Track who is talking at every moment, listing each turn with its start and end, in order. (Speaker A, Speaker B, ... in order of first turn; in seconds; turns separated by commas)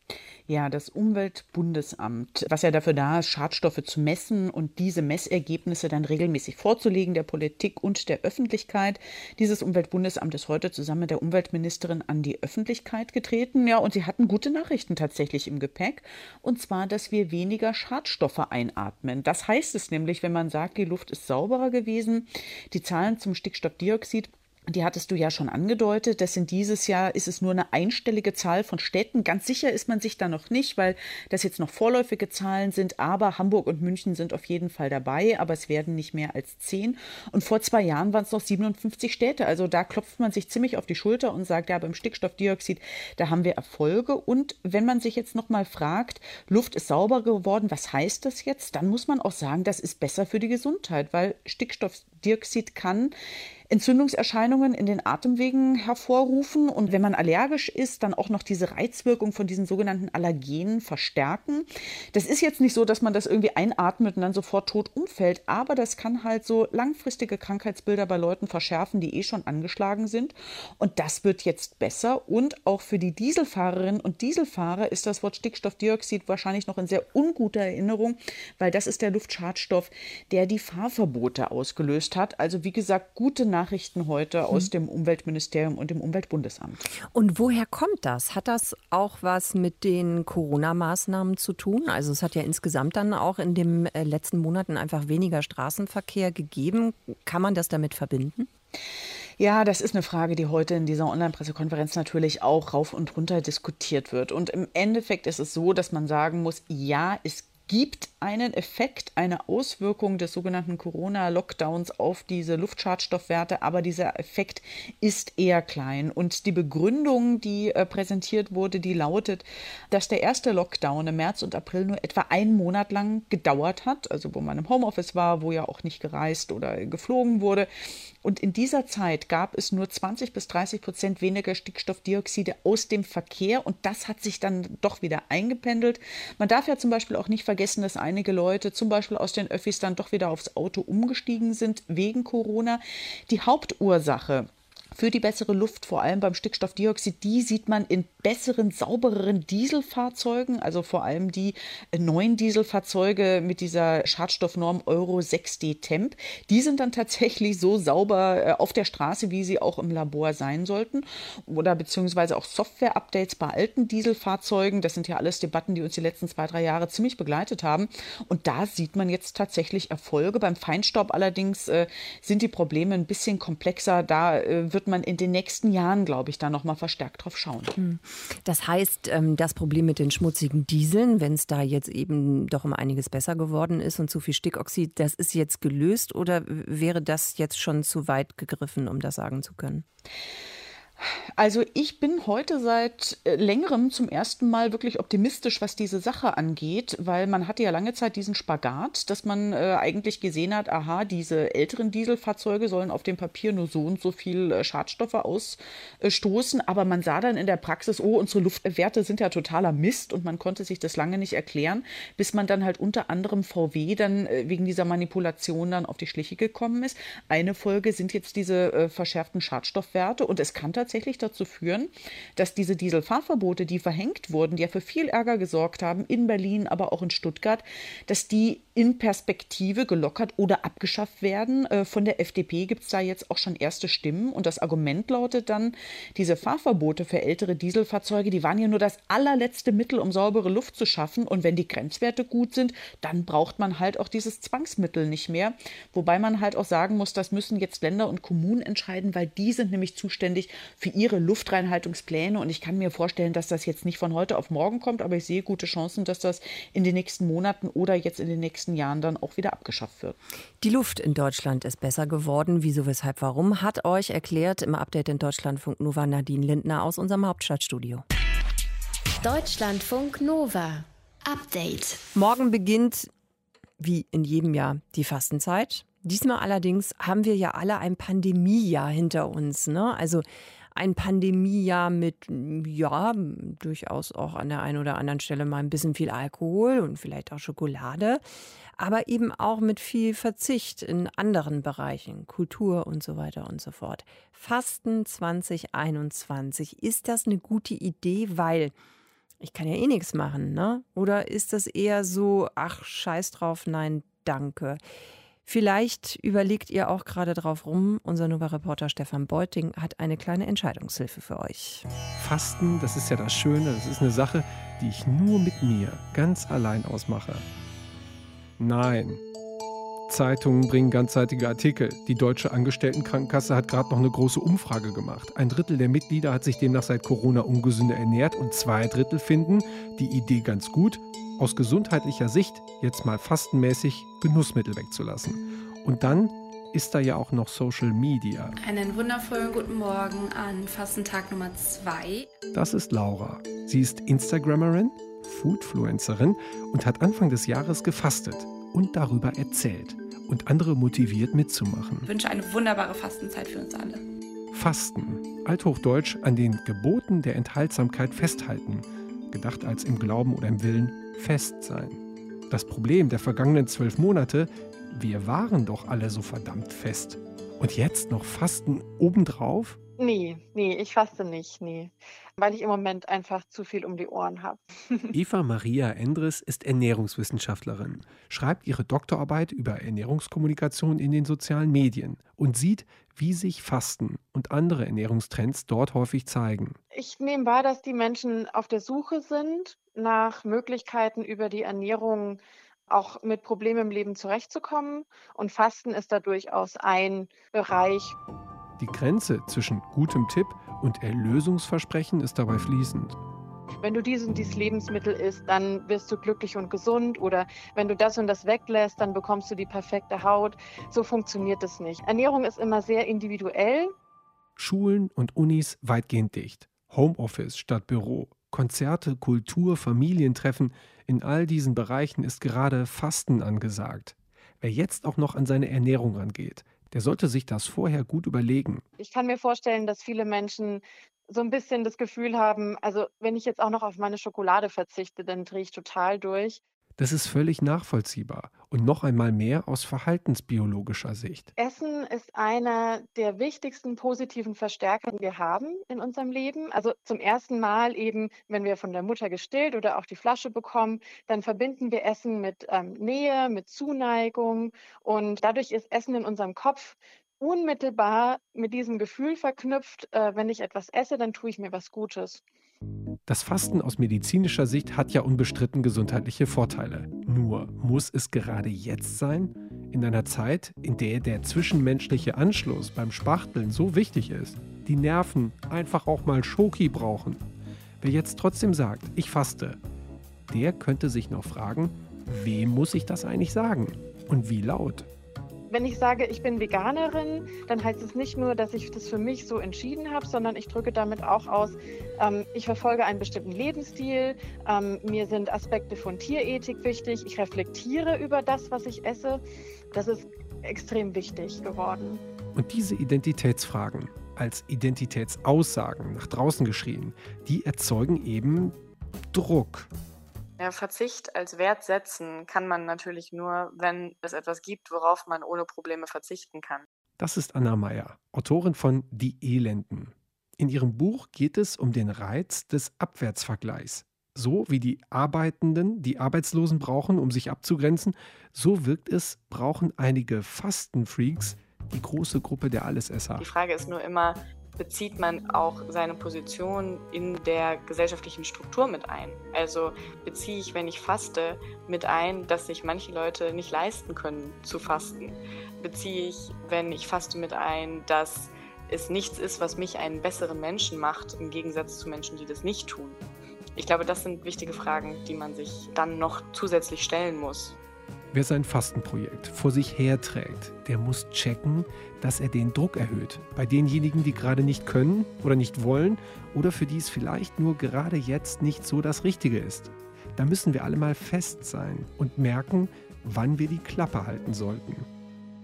Speaker A: 0.5-53.1, Speaker A: 53.7-86.8, Speaker B: 87.0-98.5, Speaker A: 99.4-127.7, Speaker A: 128.2-177.8, Speaker B: 177.8-189.8, Speaker A: 191.0-260.2, Speaker B: 260.6-268.1, Speaker C: 269.2-272.0, Speaker B: 272.1-273.1, Speaker B: 273.8-288.2, Speaker B: 288.8-298.7, Speaker B: 299.4-304.8, Speaker B: 305.4-311.9, Speaker D: 312.2-317.4, Speaker D: 318.6-319.2, Speaker D: 320.1-338.5, Speaker E: 338.6-342.3, Speaker D: 342.5-352.1, Speaker E: 352.1-354.0, Speaker D: 354.5-369.8, Speaker F: 370.0-375.1, Speaker D: 375.1-386.8, Speaker F: 386.9-398.2, Speaker D: 398.8-403.2, Speaker F: 403.8-413.9, Speaker D: 414.6-428.8, Speaker F: 429.0-436.6, Speaker D: 437.0-441.5, Speaker F: 441.6-462.4, Speaker D: 463.3-477.4, Speaker D: 478.0-479.8, Speaker D: 480.5-485.1, Speaker F: 485.7-502.2, Speaker D: 502.6-508.8, Speaker D: 509.3-509.9, Speaker G: 510.6-516.9, Speaker D: 517.2-533.5, Speaker G: 533.4-553.2, Speaker G: 553.8-557.8, Speaker D: 558.3-575.1